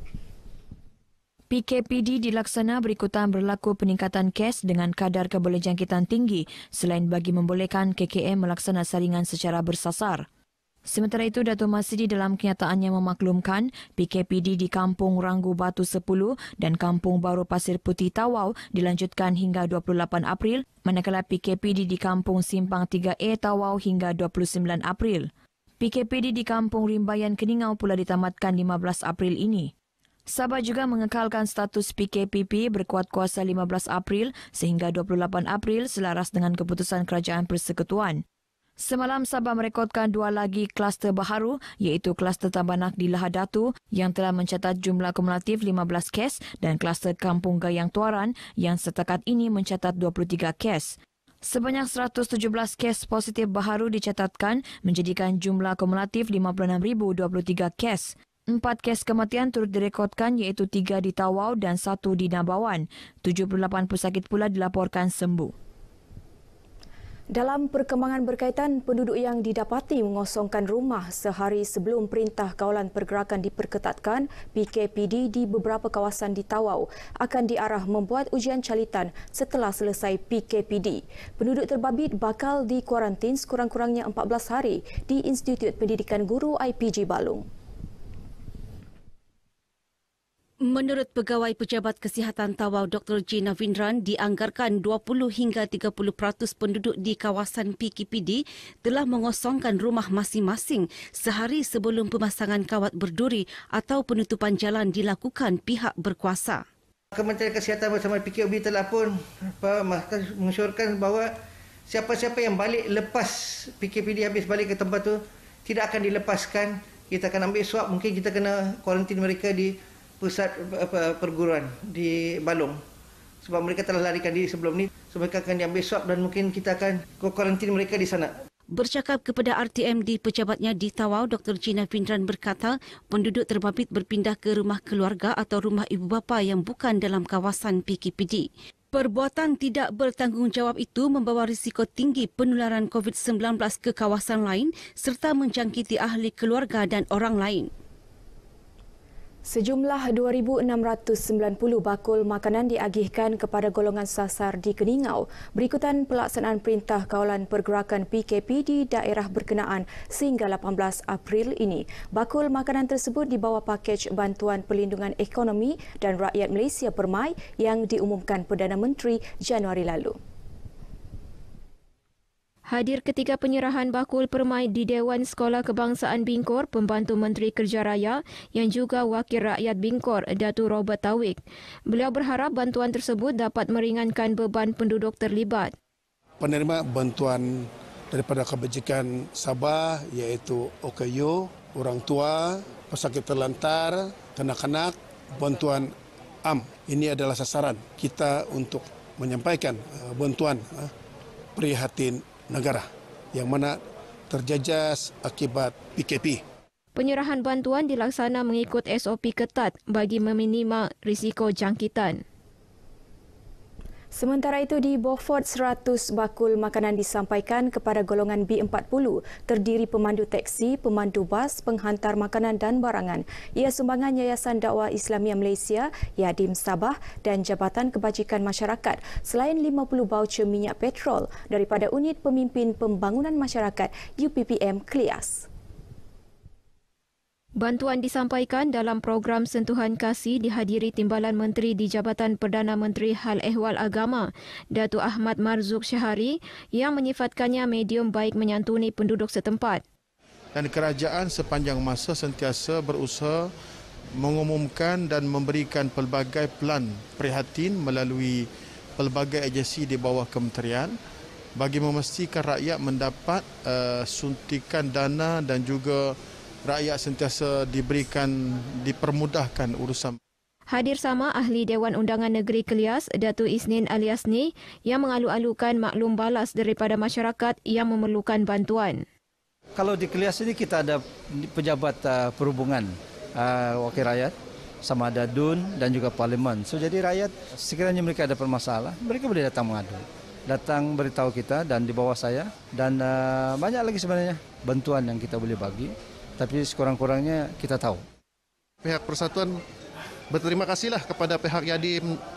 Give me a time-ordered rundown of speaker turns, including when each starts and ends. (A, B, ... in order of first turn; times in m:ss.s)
0:01.5-0:10.2 A
0:10.9-0:29.7 A
0:30.3-0:38.2 A
0:38.8-1:05.5 A
1:07.3-1:27.4 B
1:30.6-1:46.6 C
1:47.1-1:51.3 D
1:51.9-2:02.8 D
2:03.4-2:08.3 D
2:08.7-2:27.7 C
2:29.4-2:50.2 B
2:52.7-3:05.7 E
3:06.4-3:20.9 F
3:21.6-3:26.4 F
3:26.9-3:32.2 E
3:34.1-3:55.5 B
3:57.6-4:09.8 E
4:10.6-4:13.3 G
4:14.2-4:18.4 G
4:19.0-4:20.9 G
4:21.6-4:26.0 G
4:26.7-4:28.3 G
4:28.8-4:30.1 G
4:30.7-4:39.0 E
4:39.8-4:58.0 H
4:58.8-4:59.5 I
5:00.3-5:02.0 I